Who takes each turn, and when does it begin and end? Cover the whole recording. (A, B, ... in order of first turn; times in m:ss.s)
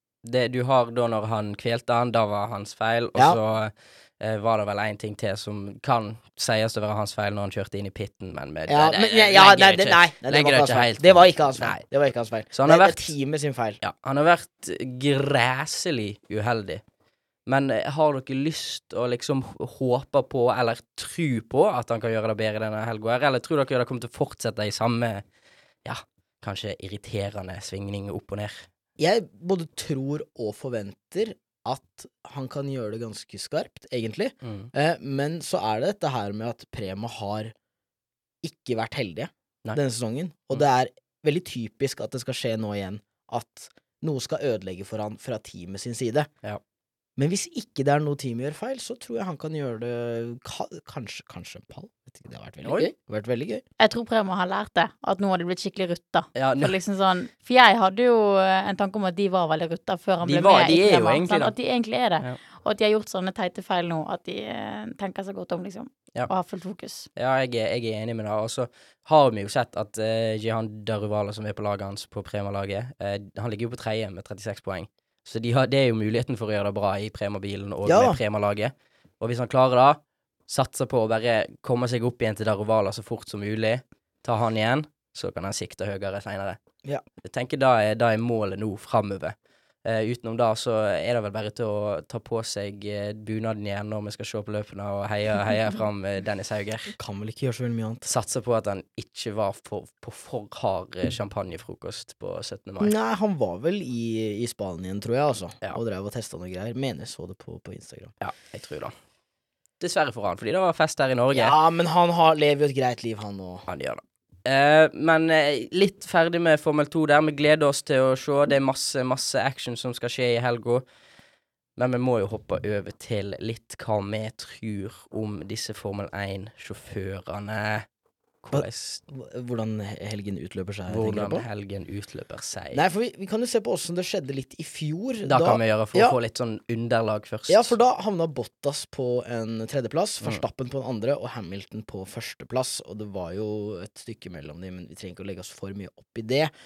0:00.2-0:11.8 A
0:08.7-0:13.8 B
0:12.5-0:13.1 A
0:13.8-0:16.8 A
0:17.4-0:25.2 A
0:25.8-0:28.6 A
0:29.0-0:37.5 B
0:34.4-0:34.7 A
0:38.4-0:46.3 B
0:47.2-0:53.6 B
0:52.6-0:52.9 A
0:53.8-1:07.1 C
0:56.4-0:56.7 A
1:00.2-1:01.5 A
1:07.2-1:26.6 A
1:17.8-1:18.2 B
1:27.2-1:36.9 A
1:37.0-1:38.1 B
1:38.0-1:42.9 A
1:42.8-1:48.1 B
1:48.2-1:48.9 A
1:49.8-1:51.6 A
1:51.3-1:53.7 B
1:53.7-2:00.8 A
2:01.8-2:07.8 A
2:08.4-2:09.0 A
2:08.5-2:11.5 B
2:10.9-2:12.8 A
2:12.7-2:16.2 B
2:15.2-2:17.7 A
2:17.5-2:26.5 B